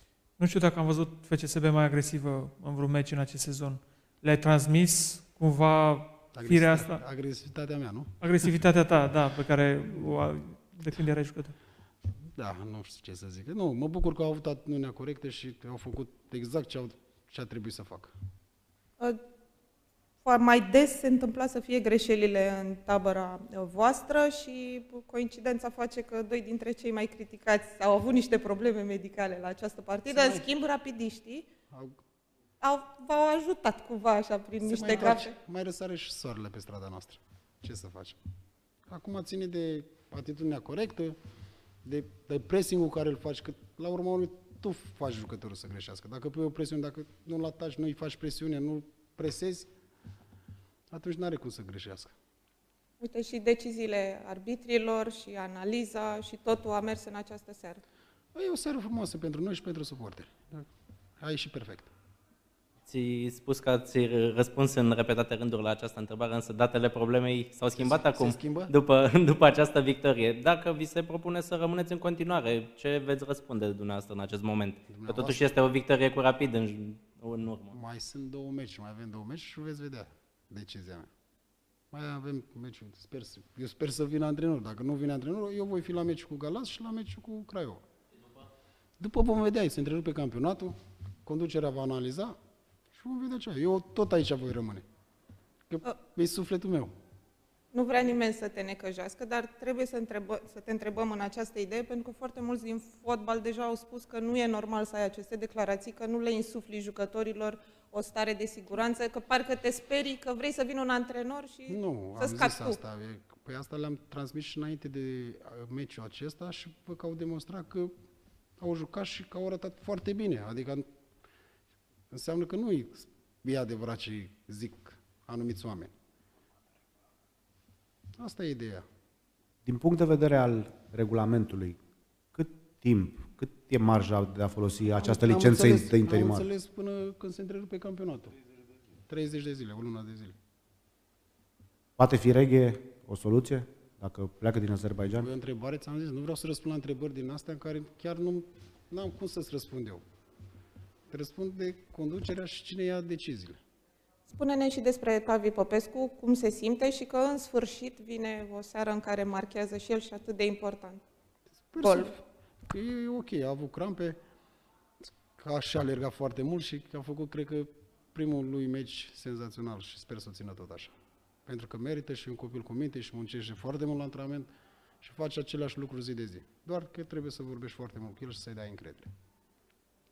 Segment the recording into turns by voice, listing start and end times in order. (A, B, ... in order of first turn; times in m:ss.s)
0:00.4-0:06.9 A
0:06.3-0:08.5 B
0:08.2-0:11.5 A
0:12.4-0:18.1 B
0:20.2-0:31.5 C
0:30.1-0:30.5 B
0:31.7-0:32.0 B
0:32.6-0:35.4 C
0:34.6-0:38.2 B
0:38.9-0:41.2 B
0:41.8-0:49.7 B
0:50.9-0:52.1 B
0:53.0-0:57.8 C
0:58.3-1:00.7 B
1:01.2-1:01.9 B
1:02.9-1:17.8 D
1:07.7-1:08.7 B
1:14.9-1:15.4 B
1:17.7-1:21.1 B
1:21.9-1:27.8 B
1:29.0-1:32.4 B
1:32.9-1:34.8 B
1:35.7-1:36.9 B
1:37.7-1:52.8 C
1:51.7-1:57.9 B
1:58.6-2:00.9 B
2:02.1-2:05.9 B
2:08.2-2:08.9 B
2:09.6-2:11.8 E
2:12.3-2:16.5 E
2:15.0-2:18.3 B
2:19.1-2:20.4 B
2:22.0-2:25.3 E
2:25.1-2:30.0 B
2:31.1-2:33.6 B
2:34.3-2:41.0 C
2:41.7-2:44.2 B
2:41.8-2:42.1 C
2:45.4-2:50.9 B
2:51.5-2:54.5 B
2:55.0-2:59.1 B